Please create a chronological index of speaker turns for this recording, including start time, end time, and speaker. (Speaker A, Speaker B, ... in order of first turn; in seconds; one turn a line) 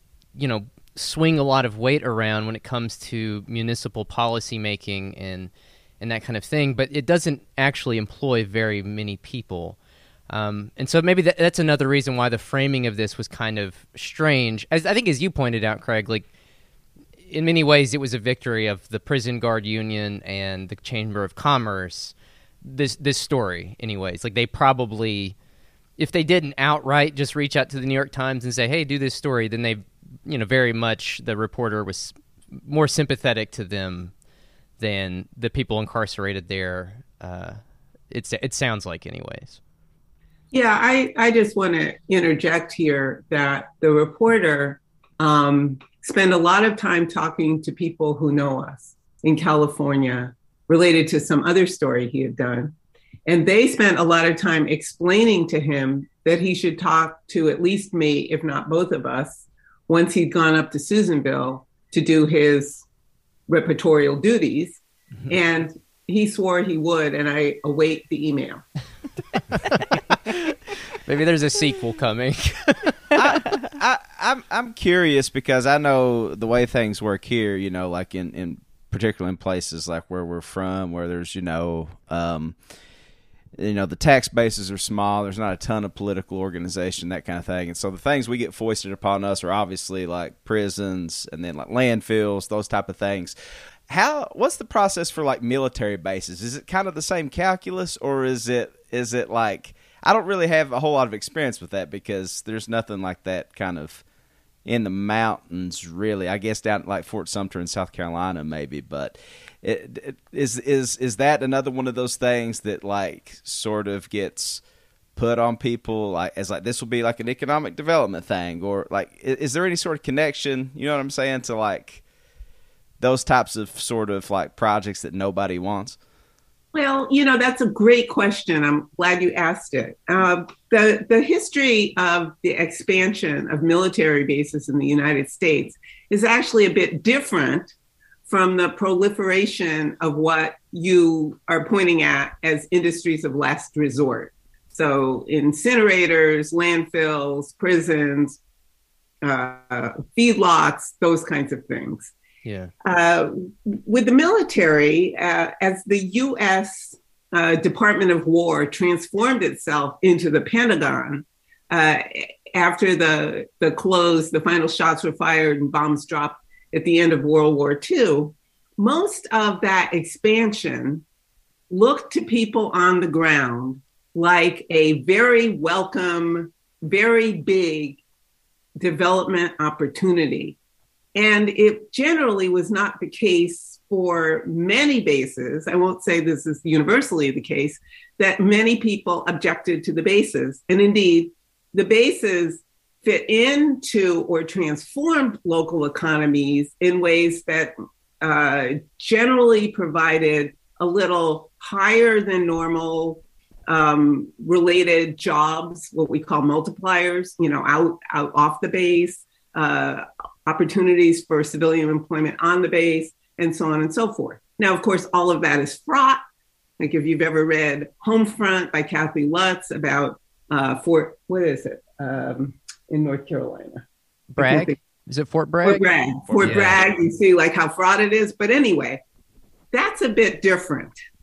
Speaker A: 0.4-9.8
Speaker A: 10.3-16.3
Speaker A: 17.3-25.4
Speaker A: 26.0-34.1
Speaker A: 34.8-37.6
Speaker A: 38.1-39.6
Speaker B: 40.5-52.8
Speaker B: 53.3-62.9
Speaker B: 63.5-68.6
Speaker A: 71.0-73.1
Speaker C: 73.2-82.6
Speaker C: 83.6-93.3
Speaker C: 93.9-104.0
Speaker C: 104.7-114.6
Speaker C: 115.2-122.0
Speaker C: 123.0-126.0
Speaker B: 126.7-137.7
Speaker B: 138.3-148.4
Speaker B: 149.2-152.1
Speaker A: 152.4-152.7
Speaker B: 152.8-171.0
Speaker B: 171.7-178.0
Speaker B: 178.8-180.6
Speaker B: 181.2-216.2
Speaker B: 216.8-223.8
Speaker A: 224.3-226.8
Speaker B: 224.4-224.8
Speaker B: 225.6-229.0
Speaker C: 226.3-226.8
Speaker B: 229.7-231.0